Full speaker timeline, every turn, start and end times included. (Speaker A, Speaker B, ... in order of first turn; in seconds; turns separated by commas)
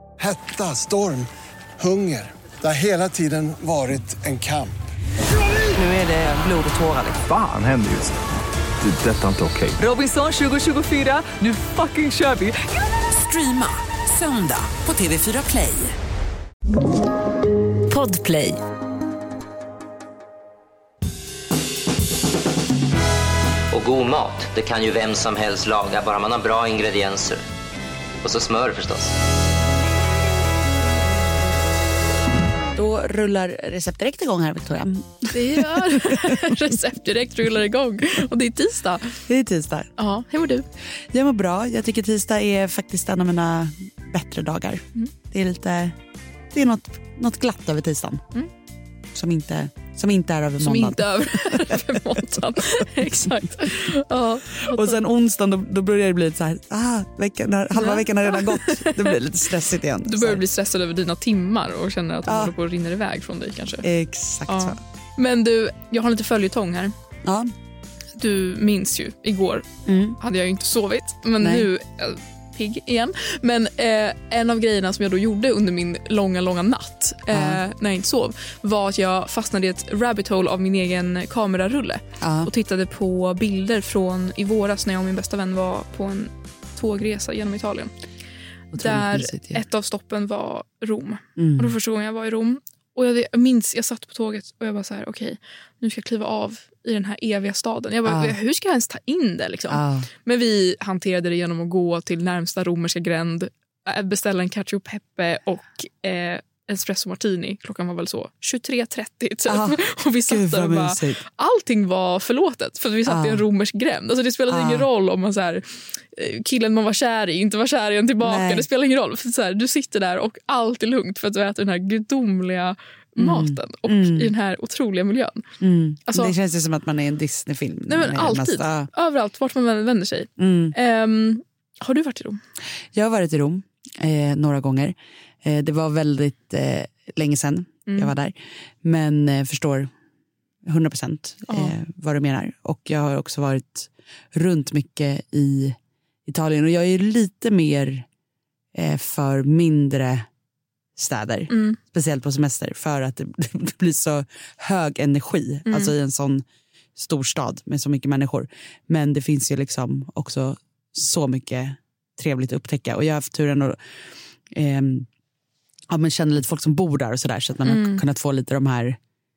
Speaker A: 0.2-1.3, Speaker A: 1.8-4.7, Speaker B: 5.8-7.2, Speaker C: 7.2-8.2, Speaker C: 8.8-9.8, Speaker B: 9.8-12.6, Speaker B: 13.1-15.9, Speaker B: 17.9-18.6, Speaker D: 23.7-27.4, Speaker D: 28.2-29.1, Speaker E: 32.8-36.3, Speaker F: 35.3-39.2, Speaker E: 39.3-39.9, Speaker F: 40.0-40.7, Speaker E: 41.1-46.0, Speaker E: 46.5-48.2, Speaker E: 49.1-51.9, Speaker F: 50.6-55.0, Speaker E: 53.0-53.6, Speaker E: 54.6-60.5, Speaker F: 57.8-59.2, Speaker F: 60.0-63.9, Speaker E: 62.2-62.5, Speaker E: 63.8-64.8, Speaker F: 64.5-66.9, Speaker E: 67.2-67.5, Speaker F: 68.2-87.9, Speaker E: 69.9-70.2, Speaker E: 71.4-71.7, Speaker E: 77.3-77.6, Speaker E: 82.2-82.5, Speaker E: 88.7-89.6, Speaker F: 88.8-125.4, Speaker E: 91.4-91.8, Speaker E: 98.1-98.4, Speaker E: 99.7-100.1, Speaker E: 109.5-111.2, Speaker E: 113.1-113.5, Speaker E: 114.5-114.9, Speaker E: 118.2-118.7, Speaker E: 123.2-124.3, Speaker E: 125.6-128.9, Speaker F: 126.1-126.3, Speaker F: 127.9-132.4, Speaker E: 130.4-130.8, Speaker E: 132.9-139.9, Speaker F: 137.9-138.1, Speaker E: 140.6-148.1, Speaker F: 141.5-141.8, Speaker E: 148.8-150.2, Speaker E: 151.0-156.4, Speaker F: 151.5-151.8, Speaker F: 155.7-155.9, Speaker E: 157.0-163.8, Speaker E: 164.5-165.1, Speaker E: 165.9-169.0, Speaker F: 167.7-168.0